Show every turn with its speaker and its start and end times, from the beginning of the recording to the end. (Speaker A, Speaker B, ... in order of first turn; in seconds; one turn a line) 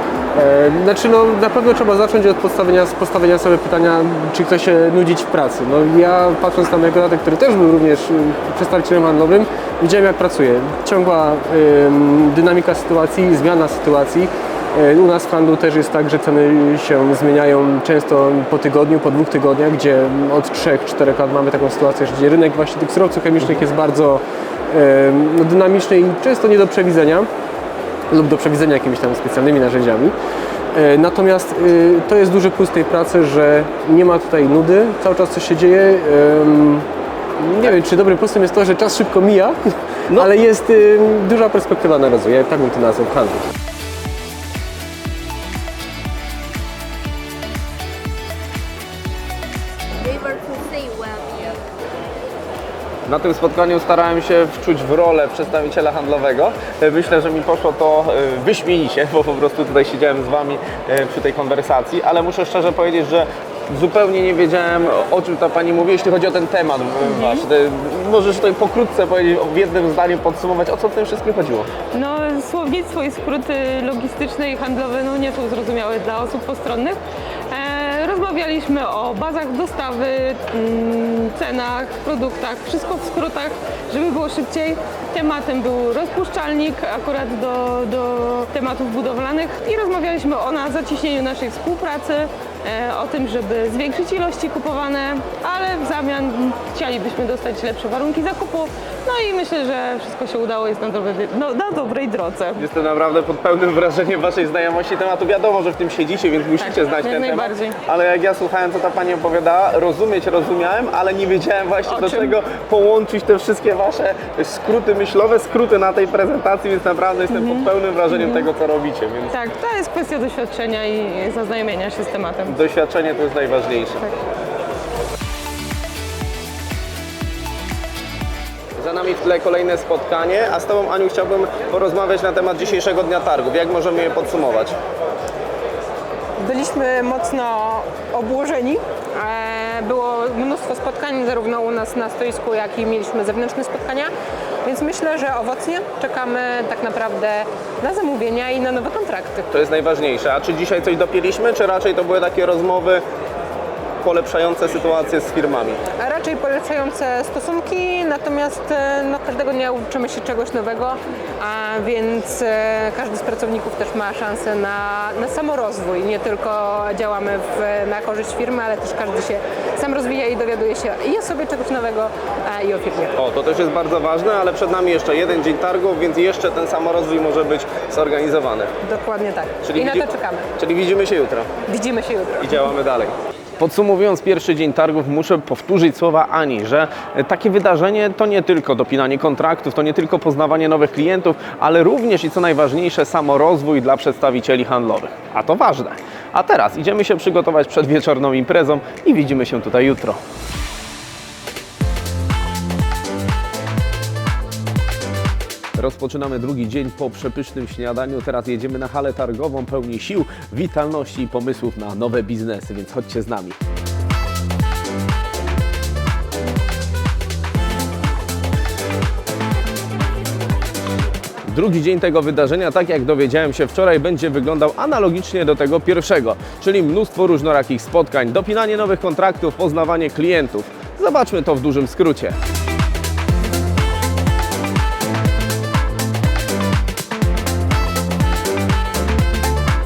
Speaker A: 0.3-27.3
Speaker A: 28.1-30.1
Speaker A: 30.7-36.9
Speaker A: 37.4-39.6
Speaker A: 40.1-43.5
Speaker B: 53.1-71.7
Speaker C: 67.0-67.5
Speaker C: 71.9-102.7
Speaker B: 102.6-119.3
Speaker C: 106.6-107.8
Speaker C: 111.9-112.3
Speaker C: 117.3-118.5
Speaker C: 119.3-122.5
Speaker B: 122.5-124.1
Speaker B: 128.8-134.8
Speaker D: 136.4-144.1
Speaker D: 144.7-149.5
Speaker B: 149.5-153.0
Speaker B: 154.0-155.8
Speaker D: 156.0-173.1
Speaker B: 173.2-178.7
Speaker D: 178.8-180.5
Speaker B: 179.6-181.5
Speaker D: 181.7-182.5
Speaker B: 182.4-200.2
Speaker B: 205.8-213.6
Speaker B: 221.5-232.4